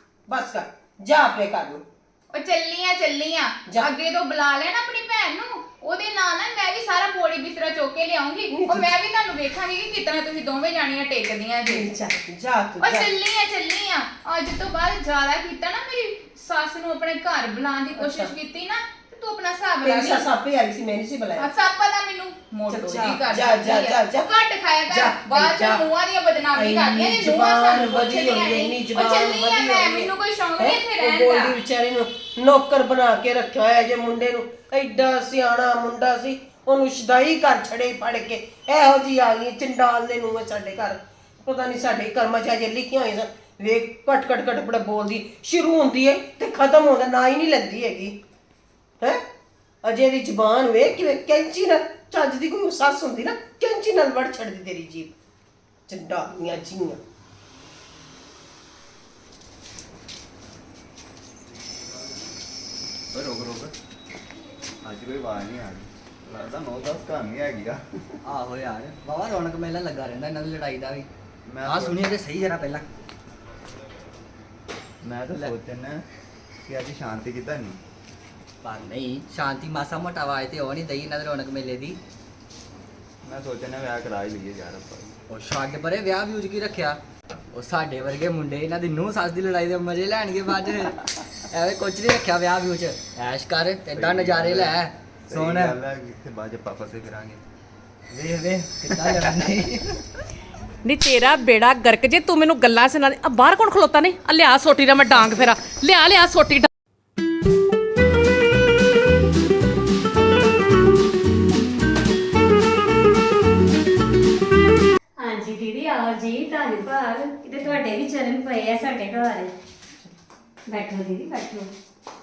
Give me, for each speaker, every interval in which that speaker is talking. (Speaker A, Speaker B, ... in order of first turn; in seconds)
Speaker A: 0.3-1.8, 8.5-8.9, 11.7-13.1, 17.9-18.3, 19.8-21.4, 22.7-24.3, 24.9-25.8, 26.5-48.1, 49.8-55.1, 55.9-57.0
Speaker B: 2.3-11.9, 12.8-20.3, 21.4-31.6
Speaker C: 63.1-63.7, 64.8-67.8, 71.5-72.1, 75.0-76.0, 76.7-77.8, 83.2-85.1, 93.9-97.4
Speaker D: 68.2-71.1, 71.6-72.8, 75.3-75.5, 78.6-82.0, 85.3-87.0, 87.5-90.9, 91.5-95.8, 98.1-99.8
Speaker E: 100.8-106.7
Speaker F: 115.2-119.5, 120.7-121.7